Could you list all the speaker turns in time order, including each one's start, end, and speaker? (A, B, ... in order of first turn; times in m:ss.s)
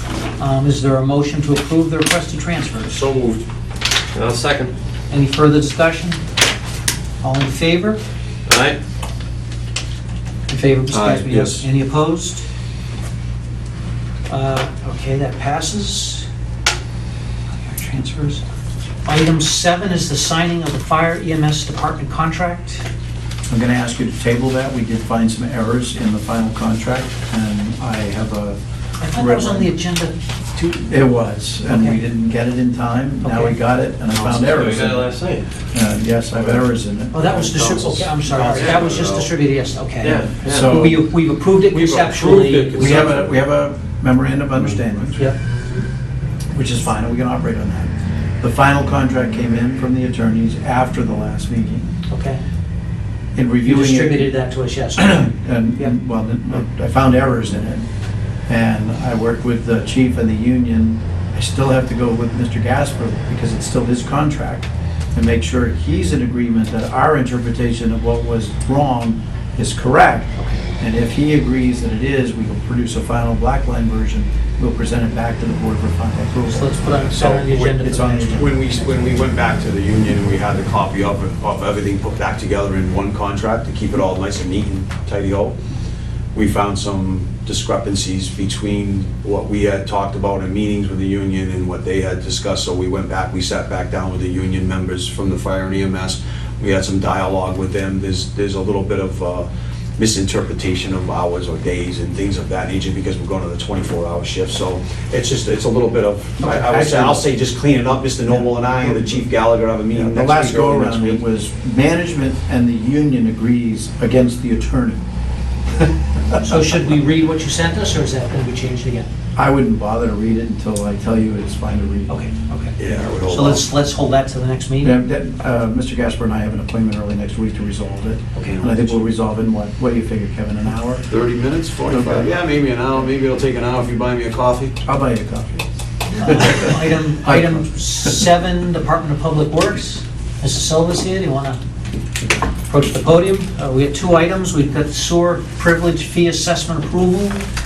0:00.4-0:03.0 A
0:02.9-0:03.4 B
0:04.1-0:04.7 C
0:05.1-0:06.2 A
0:07.2-0:08.0 A
0:08.5-0:08.8 C
0:10.5-0:12.4 A
0:10.9-0:11.7 B
0:14.3-0:16.3 A
0:17.5-0:18.4 A
0:19.0-0:22.8 A
0:23.5-0:28.6 D
0:29.0-0:30.1 A
0:29.1-0:29.7 D
0:30.6-0:35.1 D
0:31.7-0:32.0 A
0:33.2-0:33.6 A
0:34.1-0:35.5 C
0:35.7-0:37.4 D
0:37.1-0:43.0 A
0:37.6-0:39.3 B
0:38.4-0:39.0 C
0:40.0-0:41.0 C
0:40.4-0:41.0 D
0:41.7-0:43.3 B
0:42.7-0:45.2 D
0:44.6-0:45.0 B
0:46.5-0:51.8 D
0:52.1-0:52.4 A
0:53.3-0:54.3 D
0:53.6-0:55.9 A
0:55.0-0:57.8 D
0:58.5-1:18.5 D
1:10.4-1:10.6 A
1:16.4-1:18.8 A
1:17.2-1:17.5 B
1:18.2-1:25.5 B
1:26.3-1:51.2 B
1:46.4-1:47.2 D
1:48.3-1:49.2 D
1:49.9-1:55.0 D
1:56.4-1:59.1 A
1:59.4-2:02.1 D
2:02.1-2:05.0 A
2:02.8-2:03.6 B
2:04.8-2:11.1 D
2:08.3-2:08.6 A
2:08.5-2:09.1 B
2:11.1-2:14.7 B
2:11.8-2:12.5 D
2:14.8-2:15.7 D
2:16.2-2:21.6 A
2:16.2-2:18.1 D
2:22.7-2:27.4 A